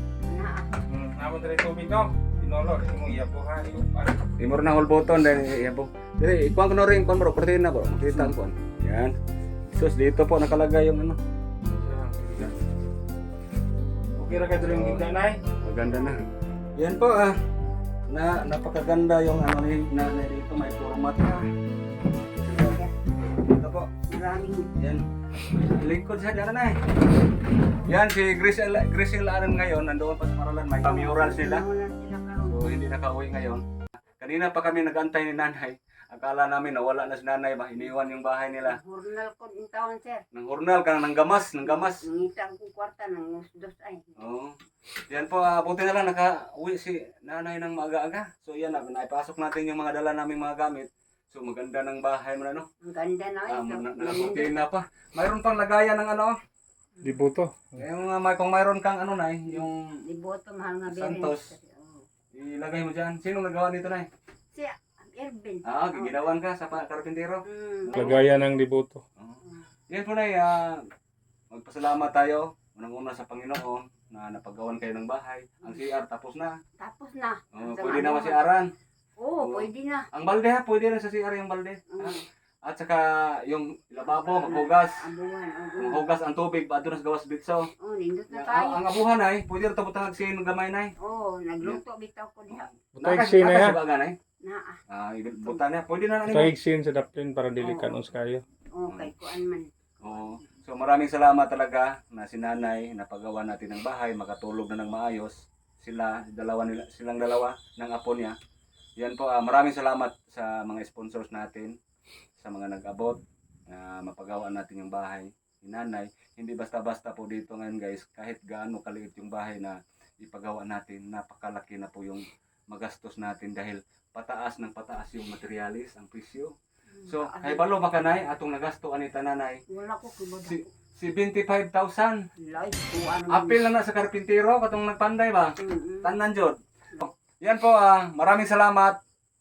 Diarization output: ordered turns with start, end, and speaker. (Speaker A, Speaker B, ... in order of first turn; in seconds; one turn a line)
Speaker A: 0.2-0.8
Speaker B: 0.9-4.3
Speaker C: 4.4-9.2
Speaker C: 9.7-11.2
Speaker B: 11.7-12.5
Speaker B: 14.2-15.4
Speaker C: 14.6-16.2
Speaker C: 16.8-17.4
Speaker C: 18.1-21.5
Speaker C: 22.5-22.8
Speaker A: 22.5-22.9
Speaker C: 23.4-23.9
Speaker A: 24.1-24.7
Speaker C: 24.8-26.8
Speaker C: 27.9-31.6
Speaker A: 30.8-32.7
Speaker C: 32.5-33.6
Speaker C: 34.2-38.8
Speaker A: 38.7-40.2
Speaker C: 40.3-42.0
Speaker A: 41.6-44.2
Speaker C: 44.2-44.6
Speaker C: 45.1-52.7
Speaker A: 52.8-54.5
Speaker C: 53.5-56.4
Speaker A: 57.0-57.3
Speaker B: 57.0-57.8
Speaker C: 57.8-60.0
Speaker A: 60.1-62.1
Speaker C: 60.9-61.5
Speaker C: 62.3-64.1
Speaker A: 64.5-66.3
Speaker C: 65.7-68.2
Speaker A: 67.5-68.2
Speaker B: 67.9-69.0
Speaker C: 69.2-70.9
Speaker C: 71.5-76.5
Speaker A: 76.8-78.5
Speaker C: 77.5-78.7
Speaker A: 79.2-80.1
Speaker C: 79.4-85.1
Speaker A: 81.9-82.2
Speaker A: 84.1-86.0
Speaker C: 85.8-87.7
Speaker A: 87.8-88.8
Speaker C: 88.3-90.9
Speaker A: 91.0-92.7
Speaker C: 92.5-94.2
Speaker B: 92.9-93.8
Speaker A: 94.4-94.8
Speaker C: 94.9-96.6
Speaker B: 96.3-98.4
Speaker A: 97.6-98.0
Speaker A: 98.8-100.6
Speaker C: 98.9-99.1
Speaker C: 100.0-108.4
Speaker C: 109.0-111.8
Speaker C: 112.4-126.5
Speaker A: 127.0-127.8
Speaker C: 127.1-129.6
Speaker A: 129.7-130.7
Speaker C: 130.3-132.3
Speaker A: 132.4-133.7
Speaker C: 133.3-139.0
Speaker A: 135.6-136.1